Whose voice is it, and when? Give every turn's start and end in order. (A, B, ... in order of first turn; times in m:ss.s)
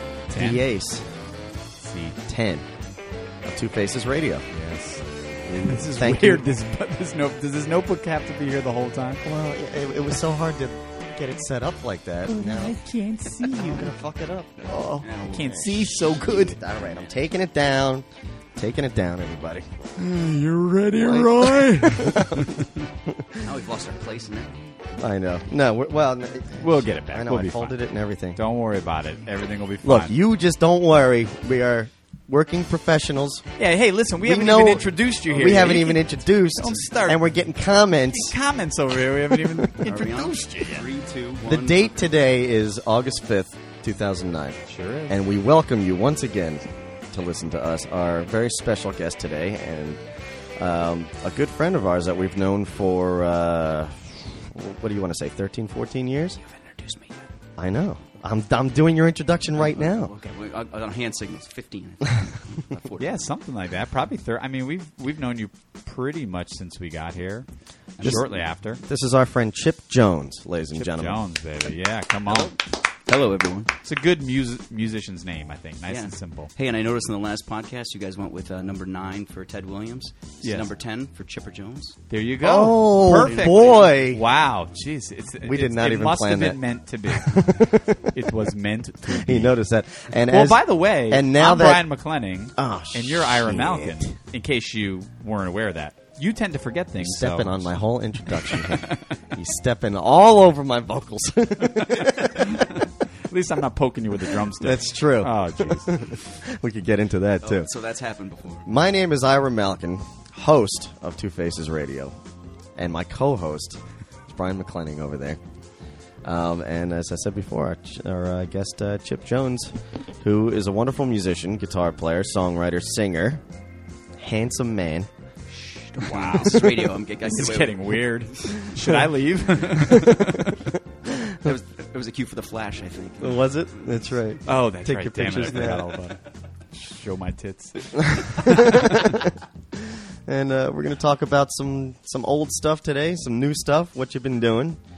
0:00.3-0:00.6 A
0:00.3-0:01.1 B
0:01.8-0:02.2 A
0:02.3-0:02.6 B
0:03.4-0:04.5 B
0:04.5-0:09.2 A
0:05.5-0:06.5 B
0:09.2-0:12.8 B
0:12.3-0:13.9 A
0:13.4-0:19.8 B
0:14.6-0:16.6 A
0:15.0-0:15.7 C
0:16.9-0:17.2 C
0:20.0-0:22.4 A
0:20.9-0:22.5 B
0:23.1-0:23.5 B
0:23.4-0:24.6 C
0:25.0-0:28.4 B
0:26.6-0:27.8 A
0:28.4-0:30.1 A
0:29.8-0:33.4 B
0:33.6-0:37.2 A
0:34.2-0:38.4 B
0:35.3-0:35.9 C
0:38.1-0:40.9 A
0:39.4-0:39.7 B
0:39.8-0:42.1 C
0:41.4-0:50.0 B
0:44.7-0:45.2 A
0:50.6-0:56.4 B
0:56.5-0:57.1 C
0:57.6-1:00.1 B
0:59.6-1:03.2 C
1:03.0-1:07.5 A
1:08.0-1:08.3 C
1:08.0-1:08.8 A
1:08.0-1:08.3 B
1:08.8-1:11.2 B
1:10.8-1:12.5 A
1:12.3-1:13.7 C
1:13.8-1:16.5 A
1:15.9-1:22.0 C
1:20.4-1:20.7 A
1:22.1-1:29.6 A
1:22.4-1:24.2 B
1:23.0-1:24.0 C
1:25.4-1:28.4 B
1:29.0-1:31.9 B
1:30.2-1:37.7 A
1:32.6-1:34.1 B
1:37.0-1:42.6 B
1:38.3-1:39.0 A
1:42.4-1:46.0 A
1:44.6-1:47.7 B
1:47.4-1:48.7 C
1:48.7-1:52.1 B
1:52.8-1:55.4 B
1:56.2-2:03.4 B
2:04.2-2:05.1 B
2:05.6-2:08.6 C
2:06.0-2:10.6 A
2:09.8-2:10.4 B
2:11.1-2:11.5 B
2:11.3-2:13.5 C
2:13.2-2:16.0 B
2:14.5-2:16.2 A
2:16.7-2:19.1 A
2:18.0-2:24.8 B